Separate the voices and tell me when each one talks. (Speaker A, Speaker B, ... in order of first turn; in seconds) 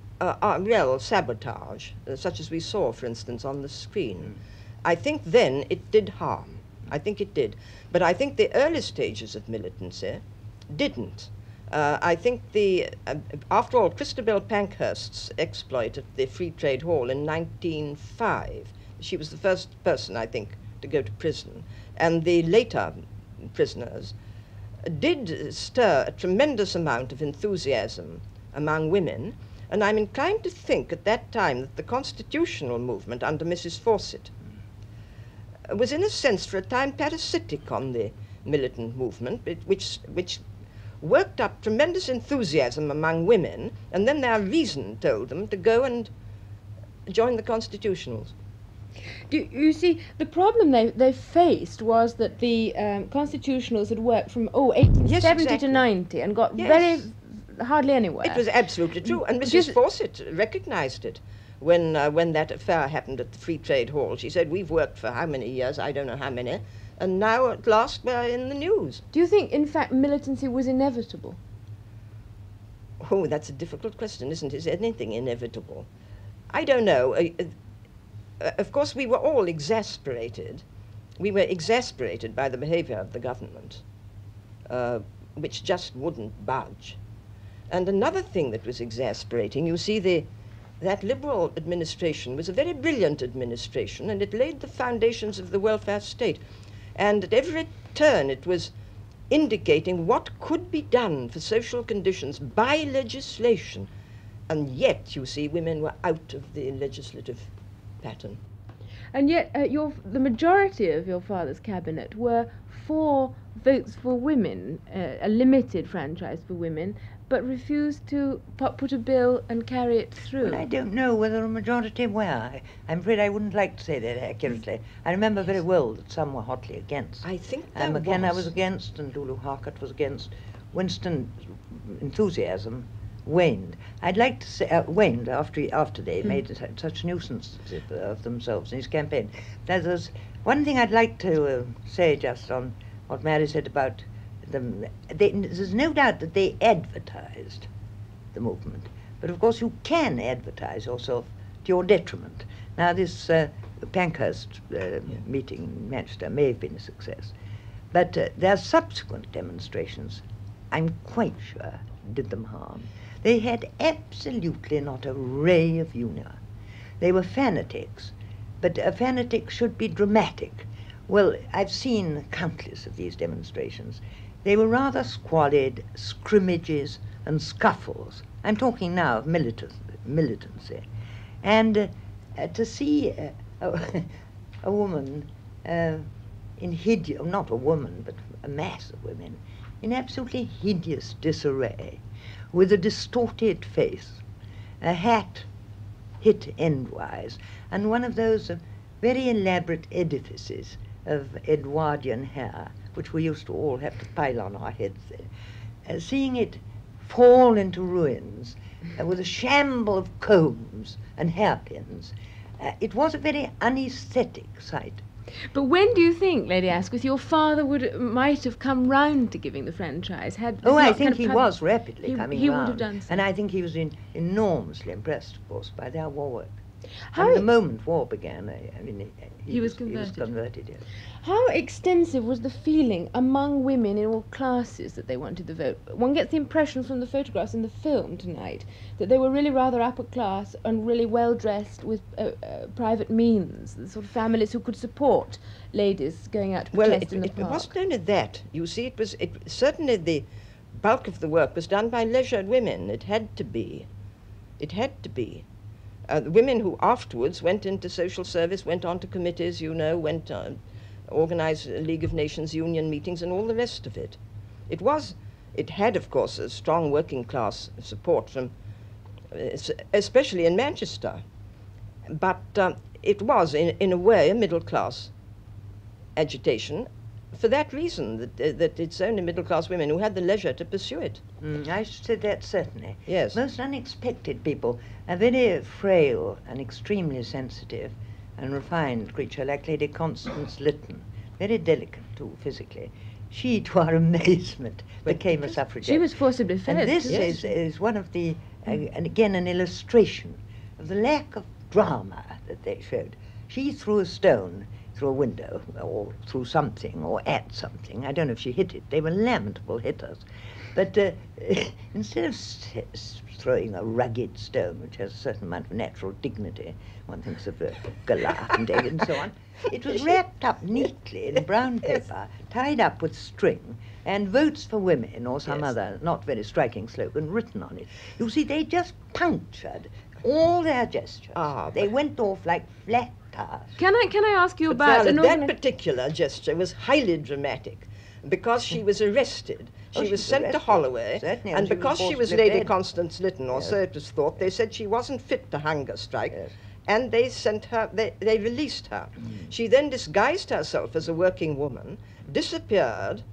Speaker A: 0.2-24.1, 24.9-34.3, 35.7-40.4, 41.0-46.1, 47.1-48.3, 55.0-55.8, 56.6-57.1, 58.2-69.0, 73.0-75.9, 76.5-77.5, 78.4-80.6, 81.2-83.8, 84.7-87.0, 87.7-90.3, 90.8-96.4, 96.9-98.7, 99.3-103.9, 104.5-107.5, 108.0-108.4, 127.2-128.5, 246.7-253.9, 254.6-255.4, 256.1-260.6, 261.1-264.2, 264.7-268.5, 269.3-271.2, 272.1-275.1, 276.1-281.2, 283.1-283.4, 331.4-331.8, 334.7-353.2
Speaker B: 49.3-58.4, 59.0-59.8, 69.1-71.4, 109.1-120.6, 215.5-221.5, 222.0-223.2, 227.1-227.4, 229.5-230.2, 231.2-247.7, 295.8-297.5, 333.8-335.6
Speaker C: 120.4-147.7, 148.3-157.3, 157.9-166.4, 167.0-180.8, 181.4-192.0, 192.5-194.2, 194.8-195.5, 196.2-205.3, 205.8-215.0, 220.6-226.6, 227.1-230.8, 281.4-296.1, 296.7-333.8, 339.9-342.7, 343.5-343.8